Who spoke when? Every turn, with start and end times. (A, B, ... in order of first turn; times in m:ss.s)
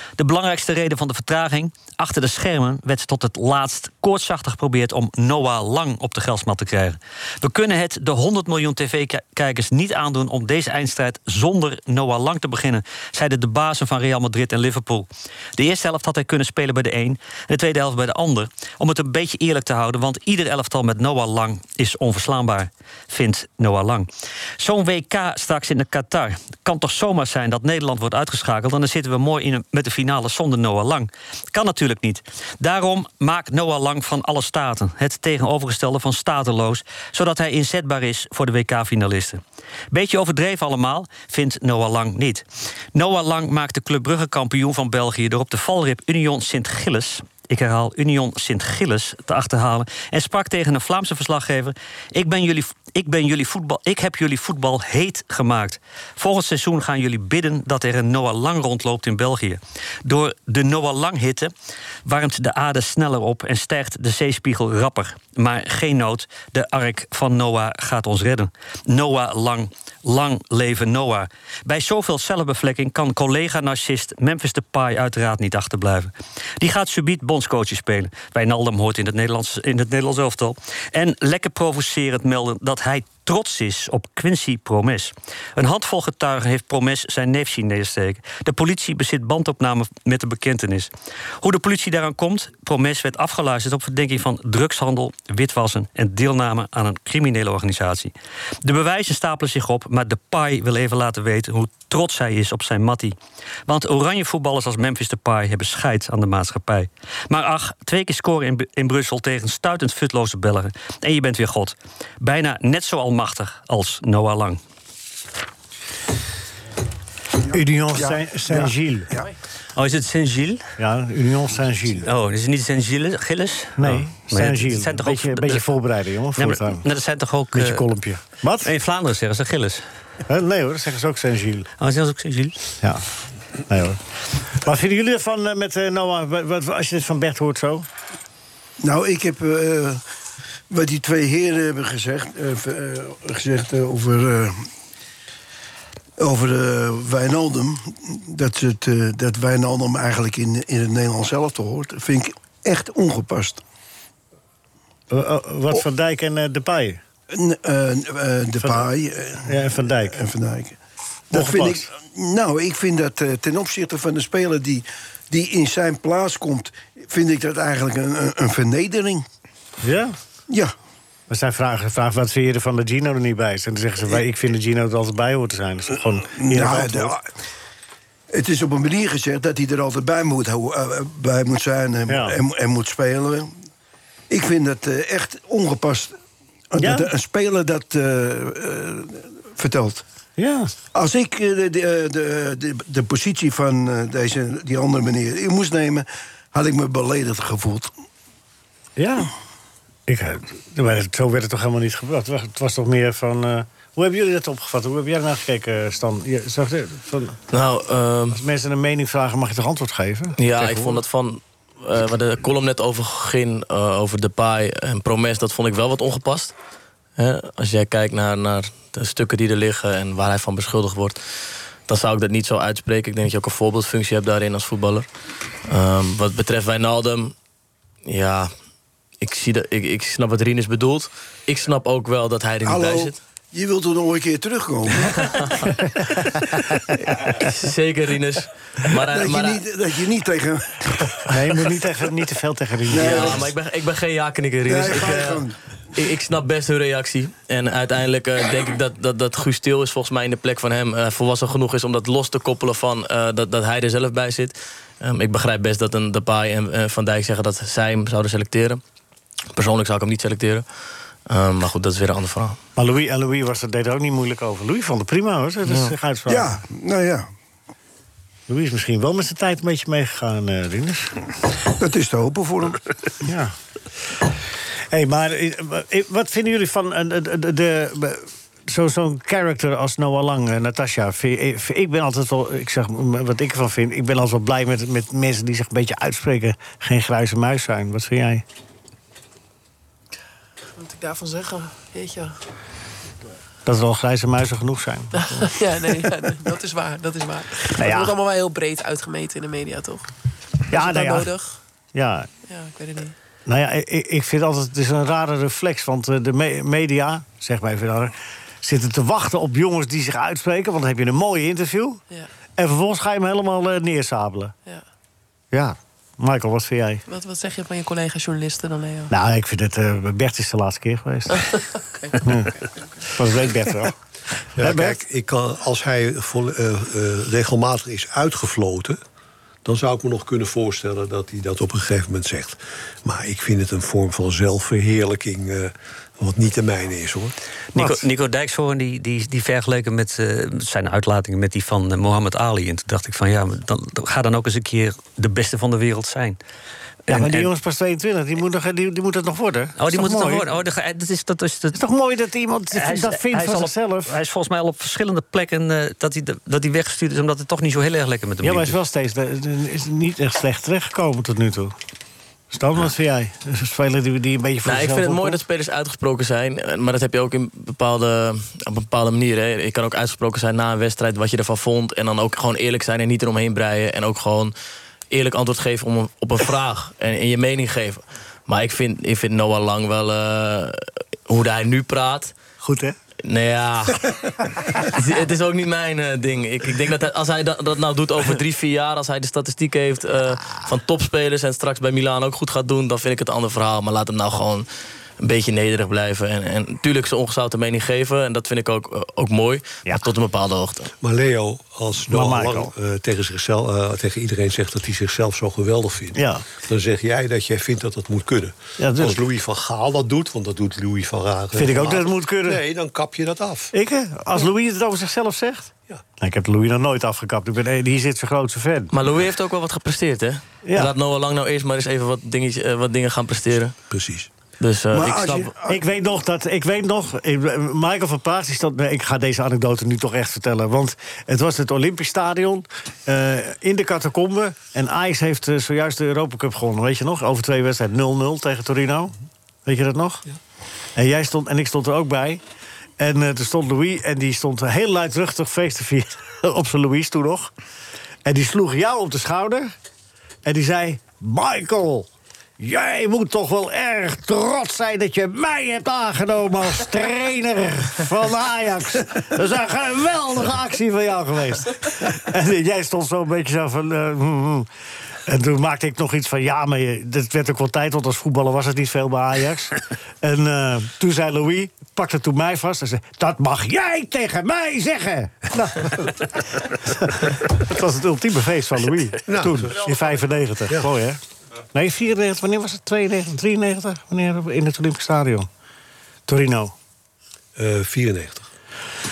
0:00.2-1:01.5 A
1:02.0-1:30.9 A
1:31.4-1:38.1 A
1:38.6-1:43.2 A
1:43.7-1:54.6 A
1:57.5-1:59.3 B
1:57.5-1:59.1 C
1:59.8-2:00.6 A
2:00.8-2:02.1 C
2:02.0-2:05.6 A
2:03.8-2:06.9 C
2:06.4-2:07.9 A
2:07.5-2:08.7 C
2:08.6-2:09.8 A
2:10.3-2:11.7 C
2:11.8-2:12.6 A
2:13.7-2:17.9 C
2:18.8-2:20.0 B
2:20.7-2:24.6 B
2:26.2-2:33.6 B
2:35.1-2:37.0 C
2:37.3-2:40.8 B
2:38.6-2:38.9 C
2:39.4-2:40.2 C
2:41.3-2:49.2 B
2:41.3-2:41.9 C
2:49.8-2:50.1 C
2:51.3-2:57.1 C
2:56.3-2:57.2 B
2:58.3-3:03.5 B
3:02.1-3:02.4 C
3:04.3-3:06.1 B
3:06.7-3:10.0 B
3:06.8-3:07.1 C
3:10.4-3:10.7 C
3:10.9-3:17.9 B
3:19.0-3:19.3 C
3:20.1-3:27.4 C
3:27.5-3:28.4 D
3:28.3-3:31.0 C
3:30.4-3:36.5 D
3:37.2-3:41.2 D
3:41.9-3:45.1 D
3:45.6-3:47.4 D
3:48.0-3:48.5 D
3:49.2-3:53.2 D
3:52.6-3:55.8 B
3:55.3-3:55.6 D
3:57.1-3:59.6 D
3:59.0-4:01.4 B
4:01.3-4:03.5 C
4:02.9-4:03.5 B
4:02.9-4:05.4 D
4:04.6-4:05.5 B
4:05.9-4:18.8 D
4:19.5-4:20.6 D
4:21.3-4:22.6 D
4:22.8-4:26.6 C
4:25.7-4:25.9 D
4:26.3-4:27.3 B
4:28.5-4:31.1 C
4:31.7-4:32.9 B
4:33.2-4:33.5 C
4:34.9-4:48.4 C
4:50.8-4:52.4 E
4:53.6-4:55.5 C
4:55.1-5:00.0 E
4:57.7-4:58.1 C
5:00.7-5:01.3 C
5:00.7-5:01.6 E
5:01.9-5:02.3 C
5:02.4-5:03.2 E
5:03.4-5:12.0 C
5:12.6-5:14.5 C
5:15.5-5:17.0 C
5:17.0-5:19.1 E
5:19.1-5:21.4 C
5:21.3-5:23.0 E
5:22.2-5:22.5 C
5:23.1-5:24.0 C
5:24.6-5:29.0 F
5:24.6-5:25.0 C
5:29.6-5:37.4 F
5:37.7-5:46.4 A
5:37.7-5:38.0 C
5:47.0-5:47.5 A
5:47.1-5:50.5 C
5:49.8-5:51.8 A
5:51.7-5:54.1 C
5:52.7-5:58.7 A
5:58.4-6:01.7 C
6:02.5-6:05.4 C
6:04.6-6:14.5 D
6:15.1-6:22.4 D
6:22.6-6:23.0 C
6:23.2-6:24.2 D
6:24.8-6:34.7 D
6:35.2-6:40.9 D
6:41.0-6:53.7 F
6:42.1-6:42.7 C
6:46.1-6:46.4 C
6:48.8-6:49.2 C
6:51.5-6:52.6 C
6:53.7-6:58.9 C
6:58.9-7:03.8 D
7:00.6-7:00.9 C
7:03.9-7:04.3 F
7:04.6-7:05.5 D
7:04.9-7:05.8 B
7:05.7-7:19.1 C
7:19.6-7:20.2 C
7:20.9-7:22.4 C
7:23.0-7:27.5 C
7:28.2-7:29.7 C
7:30.4-7:44.7 C
7:45.2-8:01.2 C
7:59.3-7:59.9 F
8:01.7-8:05.5 C
8:06.3-8:06.7 C
8:07.6-8:08.5 F